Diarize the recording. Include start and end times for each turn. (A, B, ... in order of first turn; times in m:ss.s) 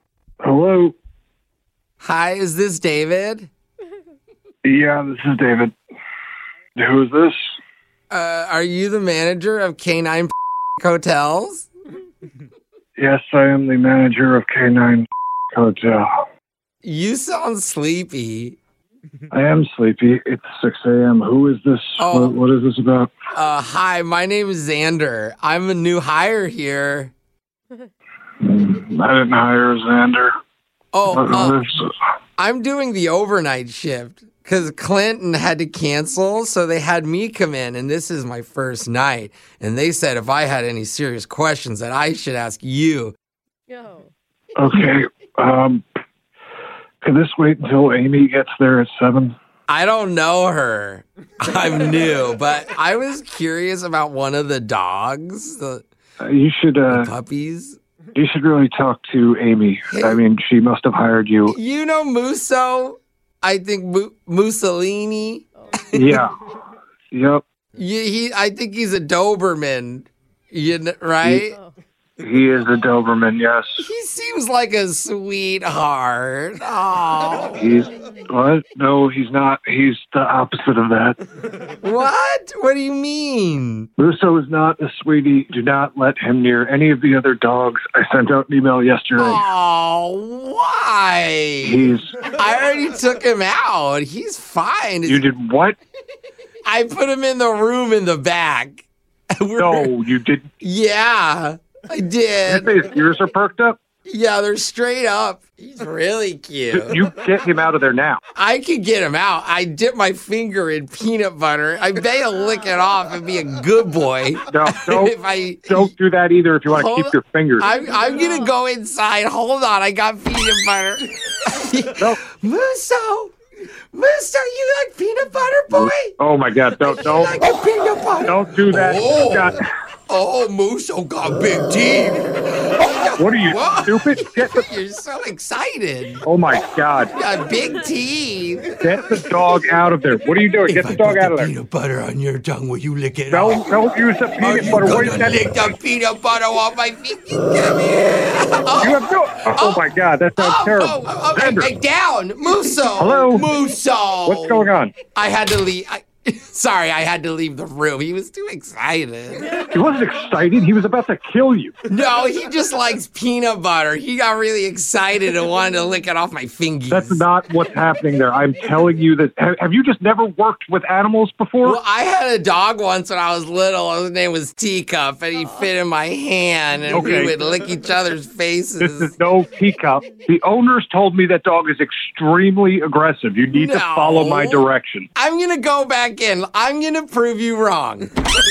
0:00.4-0:00.9 A
0:02.0-0:03.5 B
0:04.6-0:05.7 A
0:06.8-0:07.4 A
0:08.1-0:11.7 B
0:13.0-0:16.1 A
0:16.8-0:18.6 B
0:19.3-0:23.1 A
0:22.0-0:22.4 B
0:23.3-0:27.1 B
0:28.4-0:30.3 A
0:30.9-0:31.6 B
0:31.1-0:31.9 A
0:32.4-0:43.2 B
0:44.6-0:45.8 A
0:47.0-0:49.3 A
0:49.7-0:55.8 B
0:56.2-0:57.1 A
0:56.9-0:57.8 B
0:58.1-1:01.5 A
0:59.9-1:00.2 B
1:01.5-1:05.4 B
1:05.9-1:06.3 A
1:07.1-1:07.4 A
1:07.8-1:11.6 B
1:12.2-1:13.8 A
1:13.8-1:17.7 B
1:17.6-1:21.2 A
1:21.8-1:23.9 B
1:24.0-1:29.4 A
1:29.2-1:35.2 B
1:31.6-1:32.1 A
1:35.1-1:35.8 A
1:36.6-1:38.8 B
1:39.4-1:39.9 B
1:39.6-1:40.4 A
1:40.6-1:42.7 B
1:42.4-1:43.8 A
1:44.1-1:47.0 B
1:46.7-1:48.2 A
1:48.4-1:55.9 B
1:54.5-1:55.1 A
1:55.7-1:57.6 A
1:56.7-2:03.3 B
2:03.9-2:06.1 B
2:05.7-2:07.3 A
2:06.8-2:16.2 B
2:08.2-2:09.6 A
2:13.2-2:14.6 A
2:16.2-2:17.1 A
2:17.1-2:18.7 B
2:18.8-2:21.5 A
2:20.7-2:23.7 B
2:23.3-2:25.4 A
2:24.4-2:29.8 B
2:28.8-2:31.7 A
2:30.4-2:39.5 B
2:33.0-2:33.4 A
2:34.2-2:34.9 A
2:39.7-2:41.7 A
2:41.9-2:47.2 B
2:46.9-2:51.8 A
2:51.6-2:59.1 B
2:56.9-2:57.3 A
2:58.8-3:05.1 A
3:03.5-3:04.6 B
3:05.2-3:08.1 B